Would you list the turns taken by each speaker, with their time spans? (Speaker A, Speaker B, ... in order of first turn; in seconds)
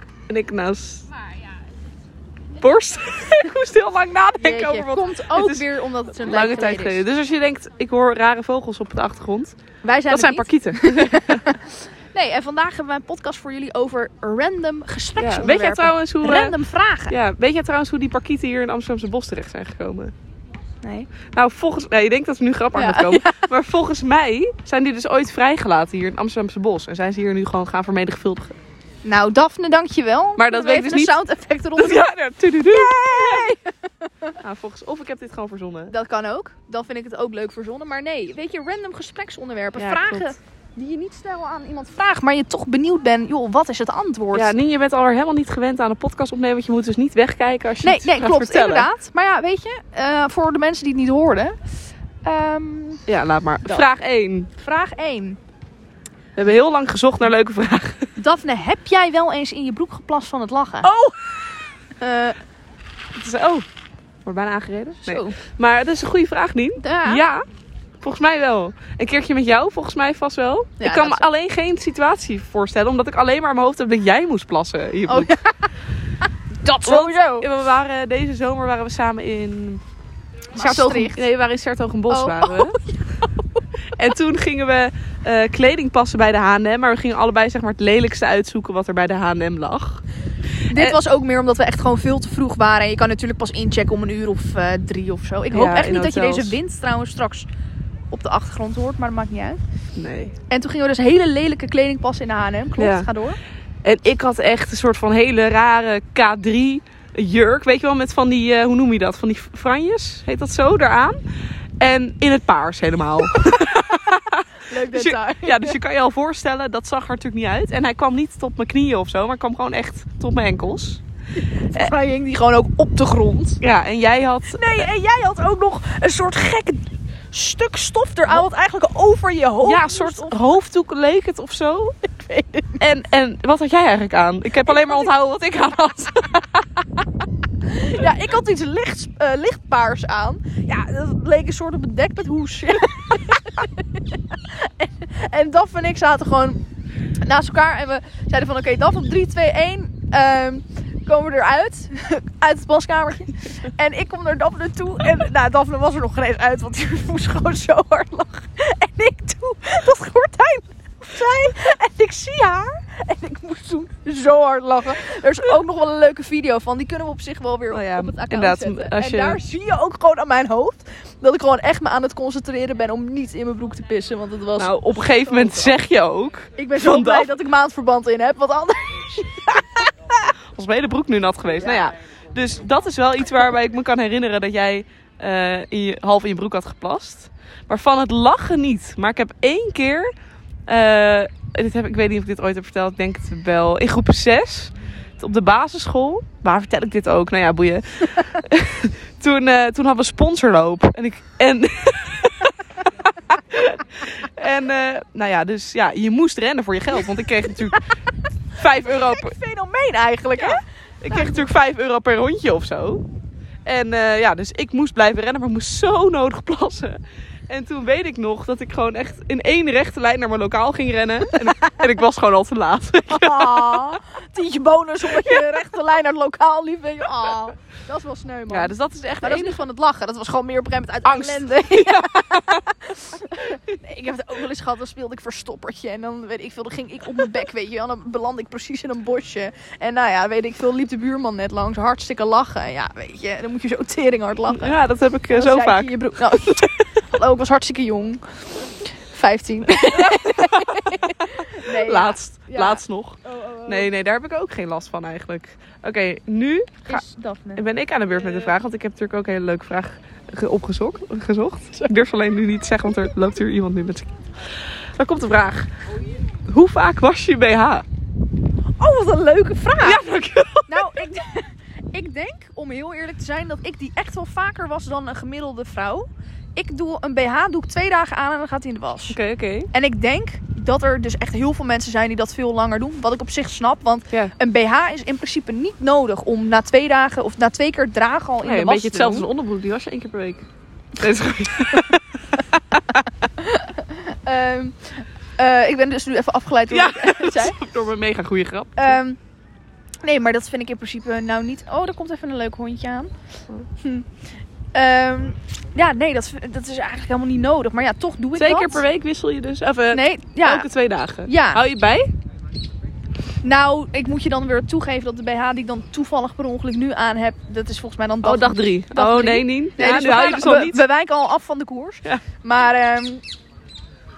Speaker A: 0.3-1.1, 2.5-9.6, 10.1-11.5, 15.2-16.6, 17.1-20.1, 21.3-28.6, 30.4-31.2, 31.8-33.5, 34.4-35.9, 39.8-40.4, 44.3-48.9, 53.1-54.5, 56.4-58.1, 60.9-61.1, 63.2-63.7, 64.2-67.4, 68.0-75.4, 76.8-79.8, 80.5-82.8, 83.9-90.0, 90.7-91.0, 95.5-96.6, 100.0-100.3, 102.8-103.1, 103.8-111.2, 111.8-121.0, 123.6-124.8, 129.6-132.0, 132.8-136.5, 167.7-169.4, 174.6-177.4, 180.5-190.1, 190.7-207.8, 208.6-209.4, 210.3-213.0, 213.7-223.9, 225.1-225.4, 228.5-229.6, 231.0-232.7, 244.5-246.9, 249.8-257.0, 257.6-265.7, 266.5-267.9, 269.8-271.0, 279.1-279.7, 288.4-293.1, 296.7-299.0, 308.4-312.1, 318.2-320.8
Speaker B: 4.4-7.0, 9.8-17.2, 20.8-21.1, 22.7-23.5, 29.1-32.0, 32.7-34.4, 35.9-44.5, 47.8-51.6, 52.2-53.0, 54.6-55.4, 58.2-60.9, 62.0-62.4, 65.1-65.4, 66.8-67.2, 70.8-71.2, 75.1-75.7, 76.6-77.5, 80.5-81.2, 82.1-83.6, 90.7-97.5, 98.1-99.6, 100.5-103.4, 113.3-115.8, 121.4-123.6, 124.5-130.5, 132.1-132.8, 134.6-135.1, 137.7-146.6, 147.2-175.8, 176.6-180.3, 181.6-181.9, 208.8-211.5, 221.5-221.8, 223.1-244.8, 245.3-253.9, 256.9-258.5, 268.8-270.0, 270.7-279.2, 279.7-289.3, 293.4-297.6, 298.8-299.2, 300.0-303.1, 303.8-304.1, 304.7-308.8, 309.9-310.7, 311.2-311.6, 313.4-323.2